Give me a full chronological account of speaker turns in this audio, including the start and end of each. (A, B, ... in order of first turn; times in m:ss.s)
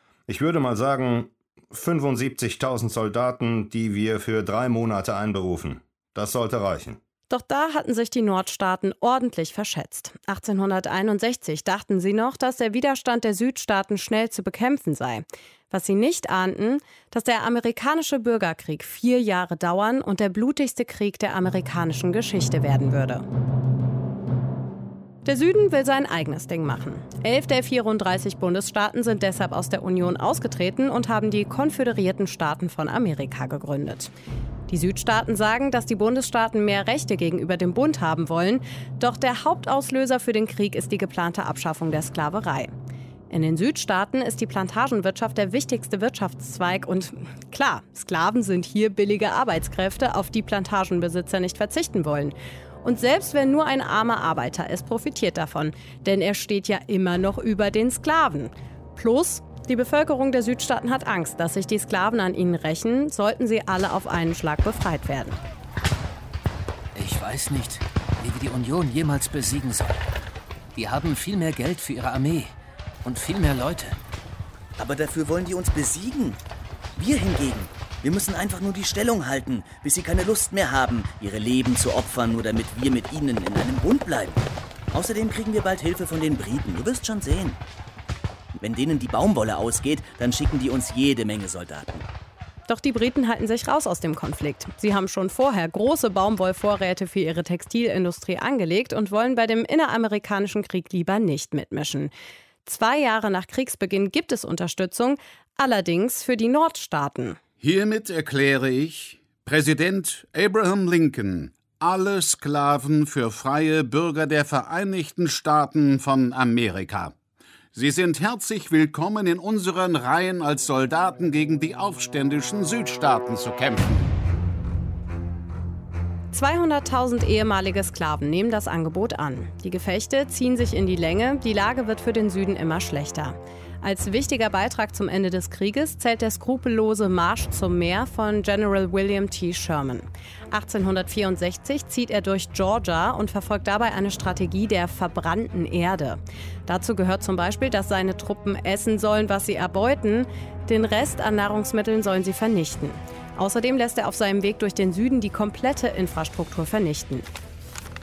0:00.3-0:07.0 A
0:07.3-0:23.2 B
0:25.2-0:34.1 B
0:34.7-0:42.7 B
0:43.3-1:05.4 B
1:07.0-1:10.1 C
1:10.8-1:14.0 C
1:14.8-1:16.4 D
1:17.0-1:27.6 D
1:28.6-1:32.1 D
1:32.7-1:42.1 B
1:42.6-1:47.4 B
1:47.6-1:57.2 E
1:57.7-2:04.1 E
2:06.3-2:37.3 B